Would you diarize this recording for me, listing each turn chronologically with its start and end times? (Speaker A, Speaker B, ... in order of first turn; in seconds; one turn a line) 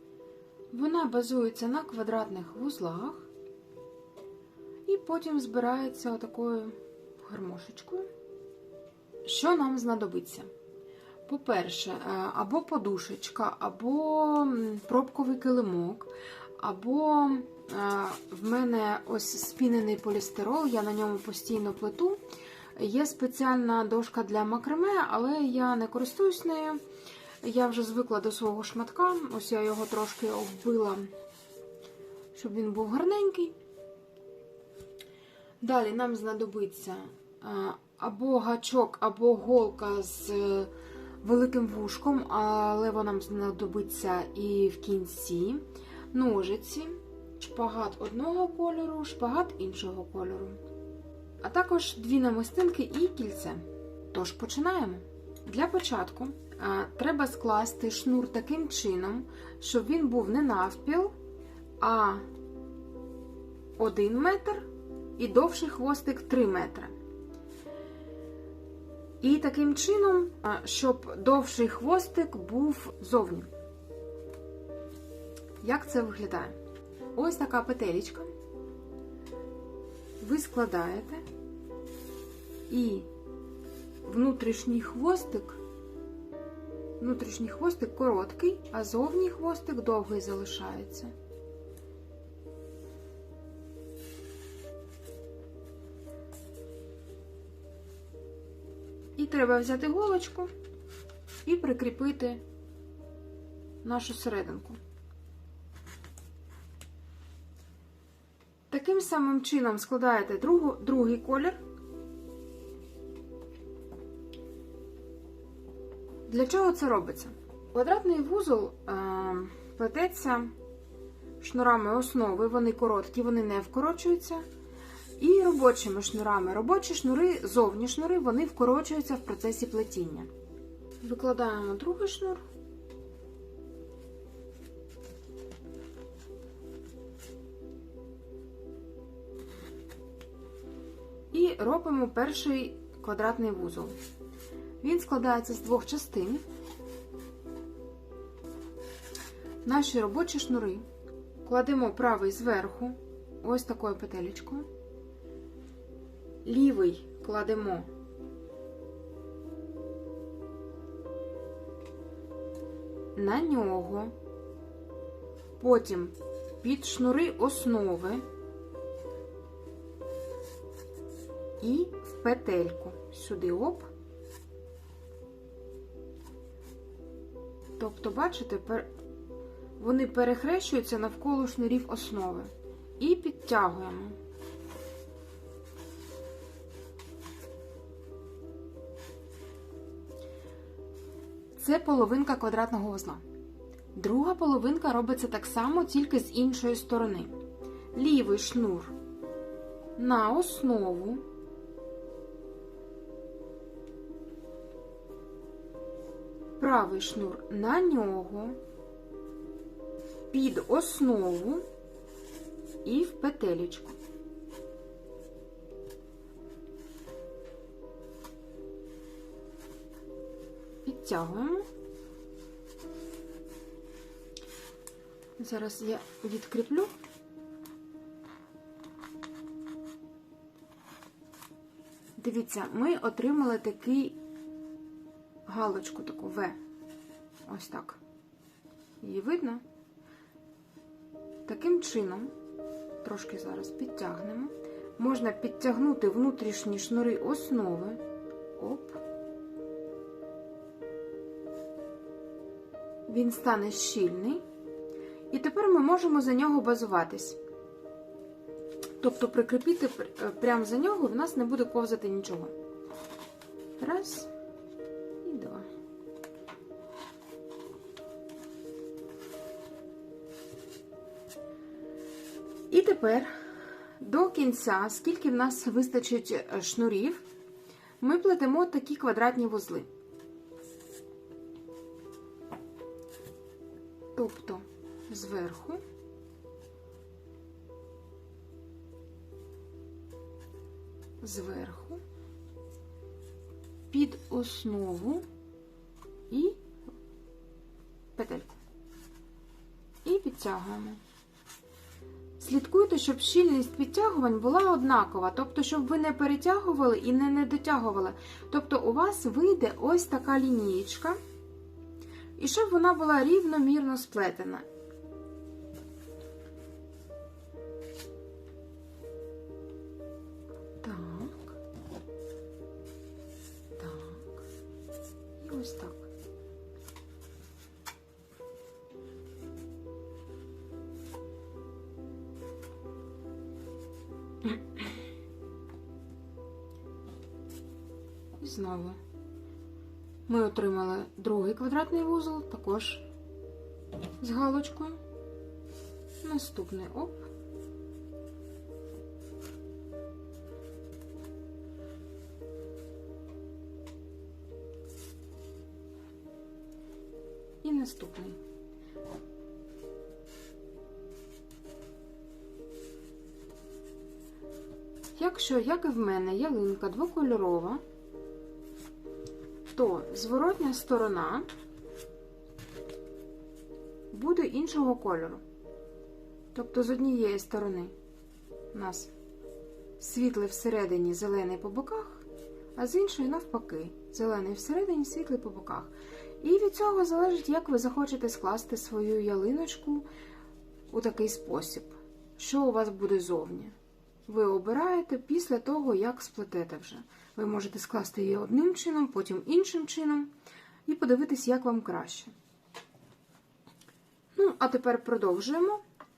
Speaker A: 0.7-3.3
Speaker A: 4.9-8.1
Speaker A: 9.2-10.5
Speaker A: 11.2-22.2
Speaker A: 22.8-26.8
Speaker A: 27.4-31.1
Speaker A: 32.3-33.5
Speaker A: 35.6-50.6
Speaker A: 51.4-61.1
Speaker A: 61.8-62.2
Speaker A: 63.8-66.9
Speaker A: 69.2-73.5
Speaker A: 75.6-76.5
Speaker A: 77.1-78.3
Speaker A: 80.2-81.2
Speaker A: 82.7-83.1
Speaker A: 84.0-85.6
Speaker A: 87.0-91.1
Speaker A: 99.2-100.5
Speaker A: 101.4-102.4
Speaker A: 103.8-104.8
Speaker A: 108.7-111.6
Speaker A: 116.3-120.5
Speaker A: 121.4-124.4
Speaker A: 125.2-130.3
Speaker A: 131.0-132.4
Speaker A: 141.3-143.9
Speaker A: 144.8-146.4
Speaker A: 149.6-150.8
Speaker A: 151.4-154.7
Speaker A: 156.4-157.9
Speaker A: 163.1-164.1
Speaker A: 165.6-168.2
Speaker A: 171.6-173.9
Speaker A: 177.8-178.9
Speaker A: 179.8-184.2
Speaker A: 191.6-193.2
Speaker A: 193.9-197.3
Speaker A: 197.9-198.9
Speaker A: 199.9-201.2
Speaker A: 206.6-208.6
Speaker A: 210.3-211.6
Speaker A: 212.8-214.0
Speaker A: 220.8-221.6
Speaker A: 225.4-226.9
Speaker A: 232.2-234.2
Speaker A: 235.4-236.6
Speaker A: 237.4-238.0
Speaker A: 239.0-239.6
Speaker A: 241.4-242.3
Speaker A: 243.0-248.0
Speaker A: 248.6-249.0
Speaker A: 253.1-254.4
Speaker A: 255.3-257.4
Speaker A: 259.0-262.5
Speaker A: 263.8-264.3
Speaker A: 265.2-265.7
Speaker A: 272.7-273.4
Speaker A: 274.0-277.2
Speaker A: 278.0-279.9
Speaker A: 284.1-285.8
Speaker A: 291.2-292.0
Speaker A: 293.9-295.2
Speaker A: 296.3-296.8
Speaker A: 298.1-298.6
Speaker A: 300.0-301.0
Speaker A: 302.4-311.2
Speaker A: 312.4-314.6
Speaker A: 320.8-321.5
Speaker A: 323.8-324.4
Speaker A: 325.4-326.1
Speaker A: 338.4-339.0
Speaker A: 340.3-343.1
Speaker A: 344.2-345.0
Speaker A: 346.2-347.3
Speaker A: 357.6-358.4
Speaker A: 365.1-367.8
Speaker A: 369.7-371.5
Speaker A: 374.1-375.4
Speaker A: 376.5-377.9
Speaker A: 378.7-379.1
Speaker A: 380.0-390.1
Speaker A: 390.9-393.7
Speaker A: 394.2-400.3
Speaker A: 400.9-402.3
Speaker A: 404.3-405.8